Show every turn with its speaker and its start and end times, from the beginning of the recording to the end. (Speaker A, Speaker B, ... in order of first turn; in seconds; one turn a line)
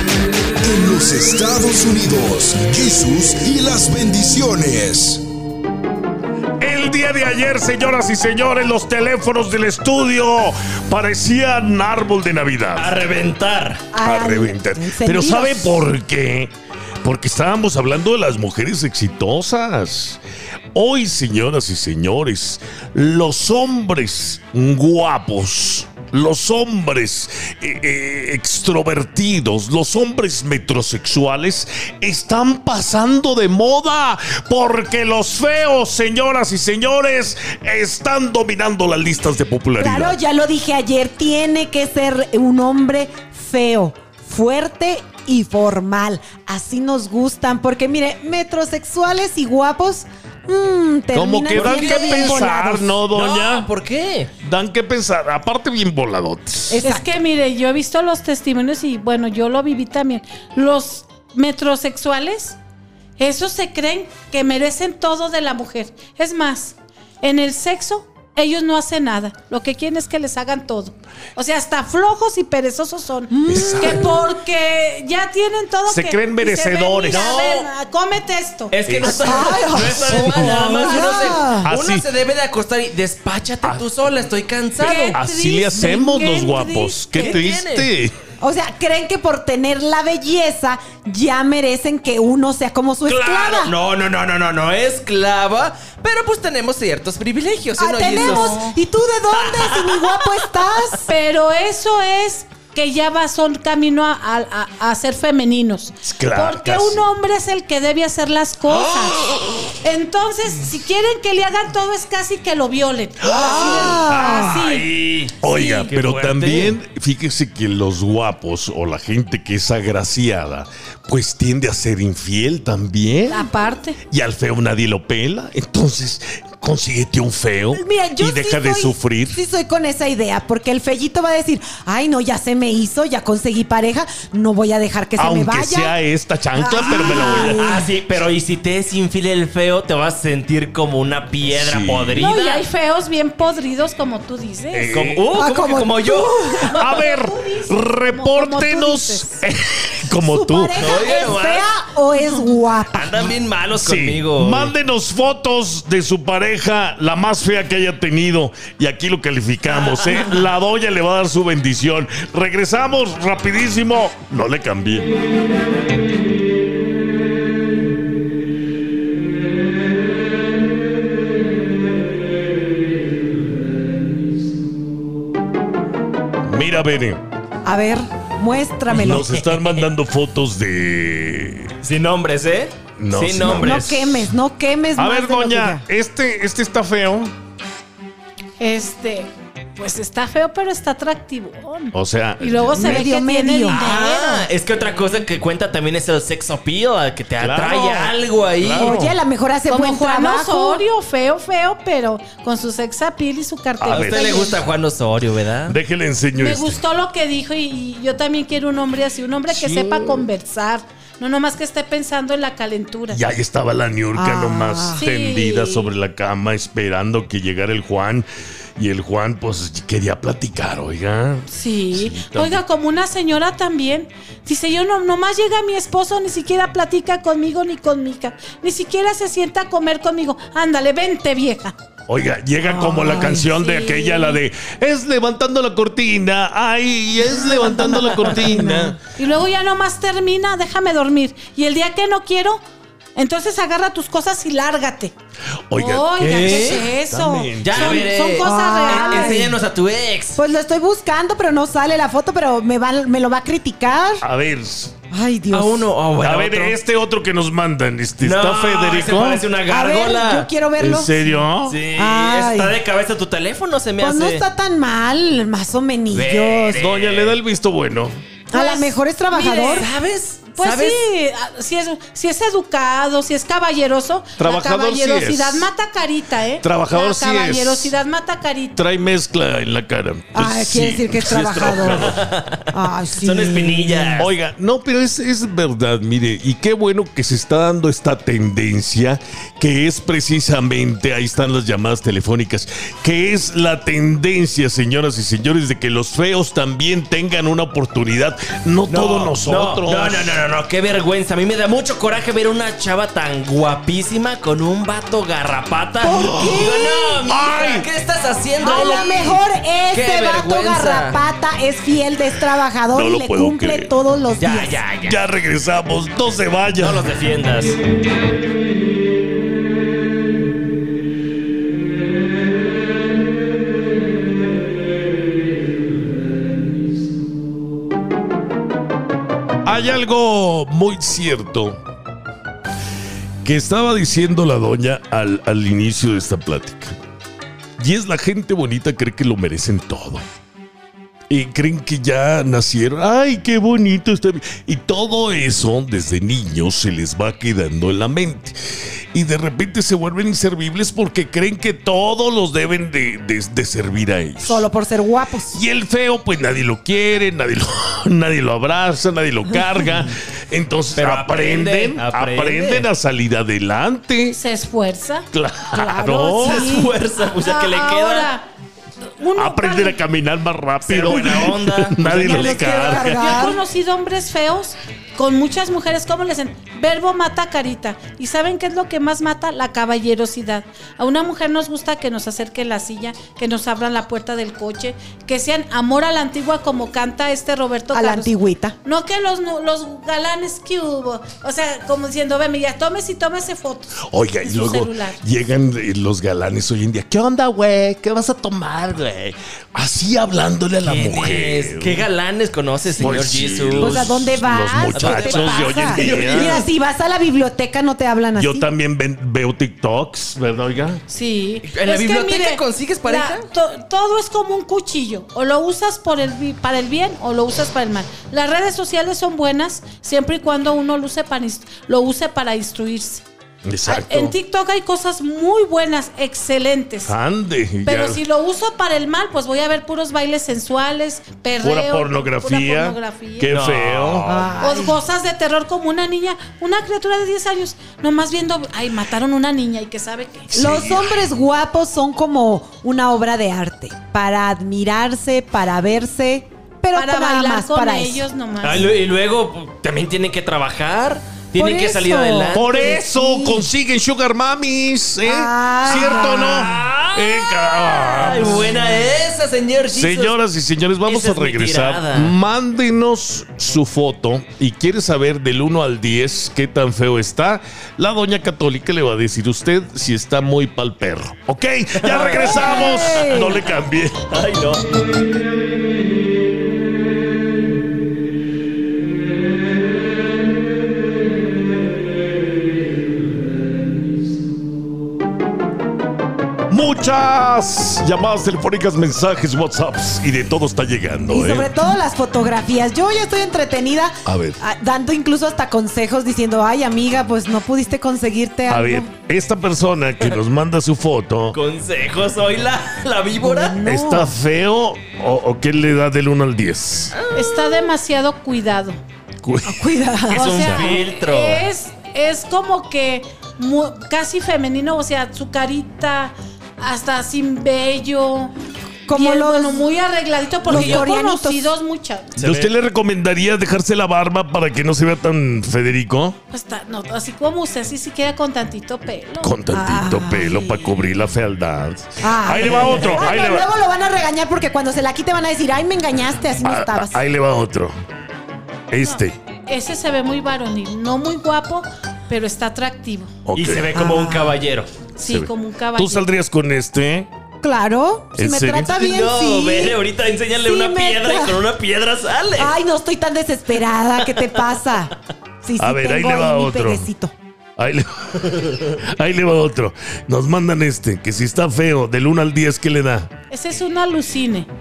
Speaker A: 0.6-5.2
Speaker B: 6.6-12.9
Speaker C: 12.7-13.8
Speaker D: 13.9-15.8
Speaker B: 14.0-16.5
Speaker B: 17.0-20.2
Speaker B: 20.7-40.2
Speaker D: 39.8-53.0
Speaker B: 51.1-53.7
Speaker C: 51.5-52.5
Speaker C: 53.1-54.3
Speaker B: 54.4-56.8
Speaker D: 56.7-57.1
Speaker E: 56.8-62.6
Speaker E: 63.2-78.8
Speaker D: 73.3-74.1
Speaker B: 73.5-74.2
Speaker B: 75.9-77.3
Speaker C: 77.1-77.7
Speaker C: 78.7-85.2
Speaker B: 78.8-82.0
Speaker D: 79.0-81.7
Speaker E: 80.7-81.3
Speaker E: 84.8-87.4
Speaker B: 85.1-88.2
Speaker C: 87.1-87.9
Speaker D: 88.4-93.7
Speaker C: 93.0-98.7
Speaker D: 97.8-101.1
Speaker E: 98.1-98.8
Speaker C: 99.3-100.8
Speaker E: 101.0-109.3
Speaker B: 106.0-107.0
Speaker E: 109.8-114.9
Speaker B: 113.3-114.4
Speaker D: 113.3-114.6
Speaker C: 113.7-116.8
Speaker E: 115.4-115.9
Speaker B: 115.4-123.5
Speaker E: 123.3-124.0
Speaker B: 124.1-129.4
Speaker D: 127.7-135.9
Speaker B: 135.2-137.7
Speaker D: 136.5-137.8
Speaker C: 136.8-142.6
Speaker B: 141.5-142.3
Speaker E: 142.2-145.0
Speaker B: 144.7-145.3
Speaker C: 144.9-146.6
Speaker D: 145.3-146.8
Speaker E: 146.7-149.4
Speaker B: 146.7-150.8
Speaker D: 150.1-153.3
Speaker C: 150.7-151.7
Speaker E: 152.1-152.5
Speaker C: 152.9-154.7
Speaker B: 153.7-165.1
Speaker C: 159.6-160.4
Speaker B: 176.4-177.2
Speaker D: 177.6-179.6
Speaker B: 178.9-181.7
Speaker C: 181.8-184.2
Speaker B: 183.0-184.2
Speaker D: 183.4-185.8
Speaker B: 185.0-187.3
Speaker E: 188.6-194.5
Speaker B: 191.9-193.1
Speaker D: 192.7-193.9
Speaker C: 193.7-199.0
Speaker B: 197.4-199.2
Speaker D: 198.8-200.8
Speaker E: 199.7-204.6
Speaker B: 203.8-204.3
Speaker C: 203.8-205.8
Speaker B: 205.7-206.8
Speaker E: 206.4-213.2
Speaker B: 209.5-210.2
Speaker B: 213.1-222.6
Speaker D: 214.1-215.1
Speaker E: 214.9-215.9
Speaker E: 221.5-231.7
Speaker B: 232.1-239.0
Speaker D: 232.6-233.5
Speaker E: 233.5-234.4
Speaker D: 237.2-239.0
Speaker C: 237.8-238.3
Speaker E: 239.2-242.6
Speaker E: 243.1-245.1
Speaker B: 245.7-248.1
Speaker E: 245.8-249.5
Speaker C: 246.2-246.9
Speaker C: 247.6-250.4
Speaker D: 248.2-249.6
Speaker D: 250.3-254.2
Speaker B: 254.2-254.9
Speaker D: 255.1-255.9
Speaker C: 255.5-256.8
Speaker B: 256.2-259.4
Speaker C: 258.2-260.5
Speaker D: 259.6-261.4
Speaker B: 260.8-261.8
Speaker C: 261.6-264.4
Speaker D: 261.9-262.8
Speaker D: 264.0-266.9
Speaker C: 266.1-267.4
Speaker B: 266.8-268.1
Speaker D: 268.5-269.9
Speaker E: 268.5-269.9
Speaker C: 269.6-271.0
Speaker E: 270.6-278.8
Speaker B: 274.4-275.7
Speaker B: 276.6-278.0
Speaker B: 278.8-282.1
Speaker D: 280.3-282.1
Speaker C: 281.4-284.3
Speaker D: 282.7-284.2
Speaker B: 284.2-300.3
Speaker C: 298.9-311.2
Speaker D: 306.0-307.2
Speaker B: 307.2-307.9
Speaker D: 308.6-314.8
Speaker B: 308.6-309.3
Speaker B: 312.9-313.9
Speaker C: 314.4-315.2
Speaker B: 315.0-317.1
Speaker C: 316.8-317.8
Speaker B: 329.6-331.8
Speaker B: 333.4-336.9
Speaker B: 337.8-340.2
Speaker B: 341.3-348.5
Speaker B: 349.1-354.6
Speaker D: 354.4-355.6
Speaker B: 355.5-364.4
Speaker C: 360.9-362.9
Speaker E: 364.3-365.3
Speaker B: 365.3-366.7
Speaker D: 365.7-366.9
Speaker C: 366.4-368.3
Speaker E: 367.4-368.4
Speaker E: 369.2-370.0
Speaker B: 369.4-373.2
Speaker C: 370.8-372.7
Speaker D: 372.1-373.6
Speaker E: 372.8-388.3
Speaker D: 387.9-388.8
Speaker E: 388.8-395.2
Speaker B: 394.1-402.1
Speaker C: 400.8-404.2
Speaker B: 403.0-406.6
Speaker D: 403.8-408.6
Speaker C: 404.9-406.7
Speaker B: 408.4-411.0
Speaker E: 411.1-423.2
Speaker C: 411.6-413.5
Speaker B: 423.6-424.3
Speaker E: 423.9-427.1
Speaker B: 427.1-428.2
Speaker E: 427.8-433.5
Speaker B: 431.6-434.3
Speaker C: 433.5-434.5
Speaker D: 434.2-435.0
Speaker E: 434.6-440.7
Speaker B: 440.5-441.3
Speaker D: 440.5-448.2
Speaker E: 446.9-448.9
Speaker C: 448.6-453.0
Speaker D: 451.5-453.7
Speaker B: 452.5-458.9
Speaker D: 455.2-456.7
Speaker C: 455.9-460.4
Speaker B: 459.9-474.3
Speaker C: 461.0-462.4
Speaker C: 472.0-473.4
Speaker D: 472.5-473.6
Speaker C: 474.3-474.9
Speaker B: 486.7-491.7
Speaker D: 491.2-499.1
Speaker B: 494.2-494.6
Speaker B: 498.7-501.6
Speaker C: 501.5-503.8
Speaker D: 503.4-504.4
Speaker B: 503.8-507.1
Speaker C: 507.1-507.9
Speaker E: 507.3-509.0
Speaker B: 509.4-509.9
Speaker D: 509.6-510.7
Speaker C: 510.3-511.7
Speaker E: 510.4-518.5
Speaker B: 510.5-510.9
Speaker D: 519.1-519.9
Speaker E: 519.1-522.3
Speaker D: 520.6-521.7
Speaker C: 520.7-521.0
Speaker C: 522.4-522.7
Speaker B: 522.4-526.4
Speaker E: 526.5-529.6
Speaker B: 529.4-533.7
Speaker D: 529.7-530.9
Speaker D: 532.2-537.2
Speaker B: 536.6-537.9
Speaker B: 538.9-539.3
Speaker E: 539.0-543.3
Speaker B: 543.5-543.9
Speaker C: 543.5-544.9
Speaker D: 543.9-544.6
Speaker E: 545.1-546.3
Speaker B: 545.2-547.3
Speaker D: 547.6-550.0
Speaker B: 548.4-548.9
Speaker C: 548.9-552.7
Speaker D: 550.5-551.6
Speaker D: 552.5-557.3
Speaker B: 555.8-557.1
Speaker B: 557.8-563.3
Speaker E: 563.5-564.7